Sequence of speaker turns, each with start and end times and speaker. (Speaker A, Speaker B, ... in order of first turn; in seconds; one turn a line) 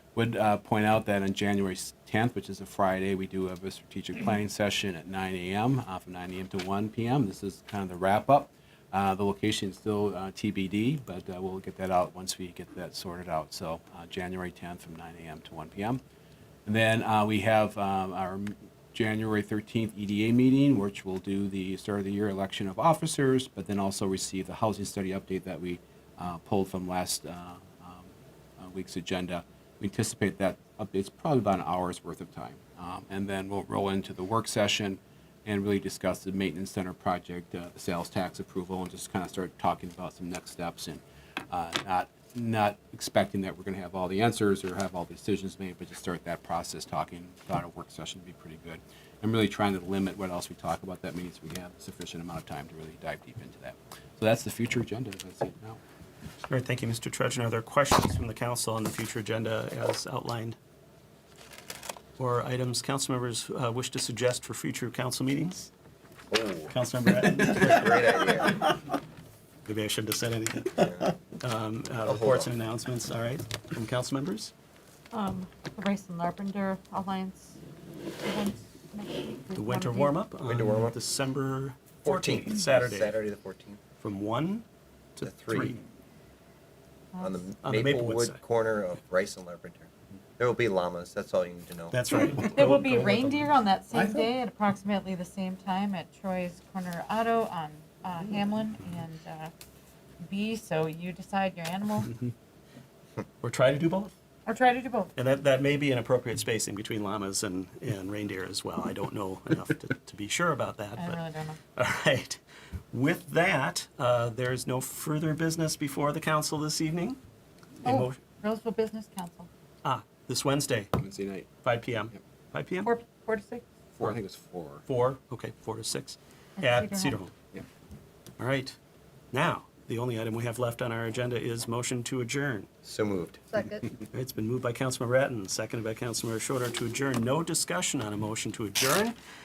Speaker A: 0.1-16.0
Speaker A: 16.6-55.8
Speaker B: 56.5-60.6
Speaker B: 62.2-65.7
Speaker C: 66.3-66.7
Speaker B: 66.7-68.8
Speaker C: 67.2-68.7
Speaker B: 69.6-74.5
Speaker C: 70.8-71.1
Speaker C: 72.0-72.5
Speaker D: 75.1-77.6
Speaker D: 78.2-80.2
Speaker B: 79.5-83.2
Speaker C: 80.5-81.0
Speaker C: 82.0-83.8
Speaker B: 84.0-84.6
Speaker B: 85.2-85.8
Speaker C: 85.2-85.8
Speaker D: 87.1-87.4
Speaker C: 87.2-92.0
Speaker B: 87.6-88.4
Speaker B: 91.9-93.5
Speaker D: 92.3-99.5
Speaker D: 100.2-102.1
Speaker B: 103.4-104.1
Speaker D: 104.5-105.1
Speaker B: 105.2-111.2
Speaker D: 111.0-111.6
Speaker B: 111.7-112.4
Speaker B: 112.9-117.2
Speaker B: 117.8-118.2
Speaker D: 117.8-119.5
Speaker B: 119.8-120.9
Speaker A: 121.0-121.5
Speaker B: 121.6-122.9
Speaker D: 122.8-123.6
Speaker A: 124.0-124.8
Speaker B: 124.8-127.3
Speaker D: 126.6-127.2
Speaker B: 128.4-128.8
Speaker B: 129.3-132.7
Speaker C: 132.8-133.4
Speaker D: 133.5-133.9
Speaker B: 134.1-139.2